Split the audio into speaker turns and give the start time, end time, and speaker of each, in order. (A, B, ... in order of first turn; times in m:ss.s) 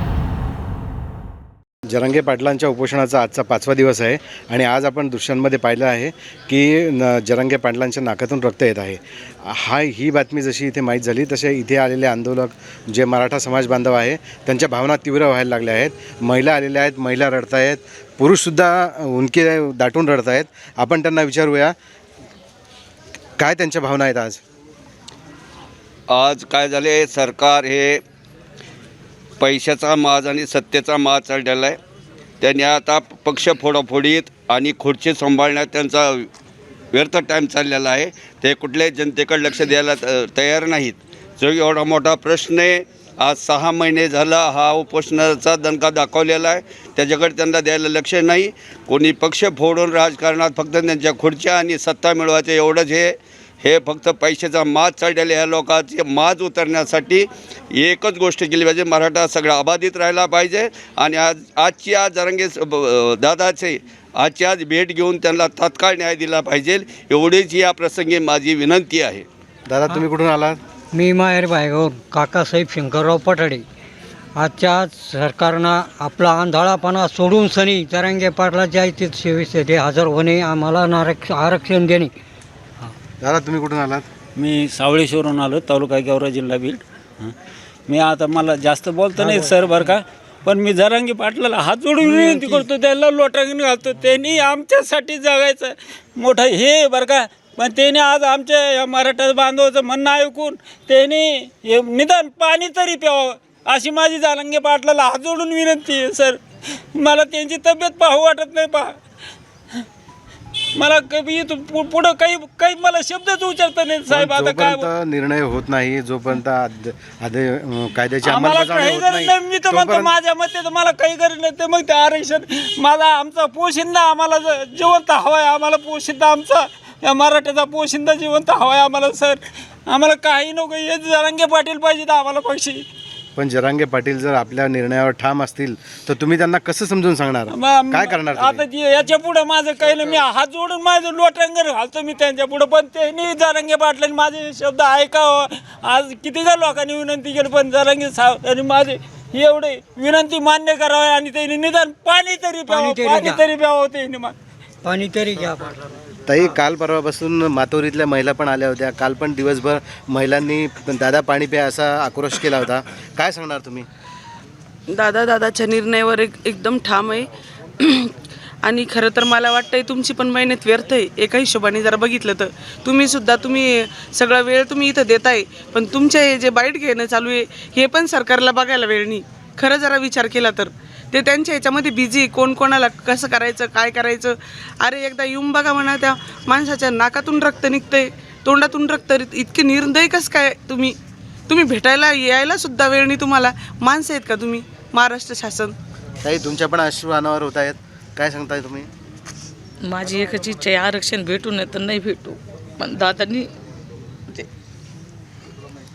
0:01.9-0:21.7 A
0:23.4-0:24.4 A
0:26.1-0:28.0 B
0:29.4-0:31.8 B
0:32.4-0:36.3 B
0:36.9-1:09.2 B
1:09.7-1:10.6 A
1:10.9-1:13.6 C
1:14.4-1:22.1 C
1:23.2-1:24.0 A
1:24.4-1:27.3 D
1:27.9-1:46.4 D
1:29.2-1:29.9 C
1:32.0-1:32.7 C
1:46.9-1:49.0 D
1:50.8-1:54.9 D
1:54.1-2:00.1 A
1:58.2-2:12.8 D
2:13.4-2:18.6 A
2:17.5-2:34.3 D
2:32.7-2:33.5 C
2:34.8-2:35.7 C
2:36.3-2:43.9 A
2:44.9-2:48.1 E
2:48.6-3:11.0 E
3:11.5-3:15.8 E
3:16.2-3:18.9 A
3:19.8-3:23.5 F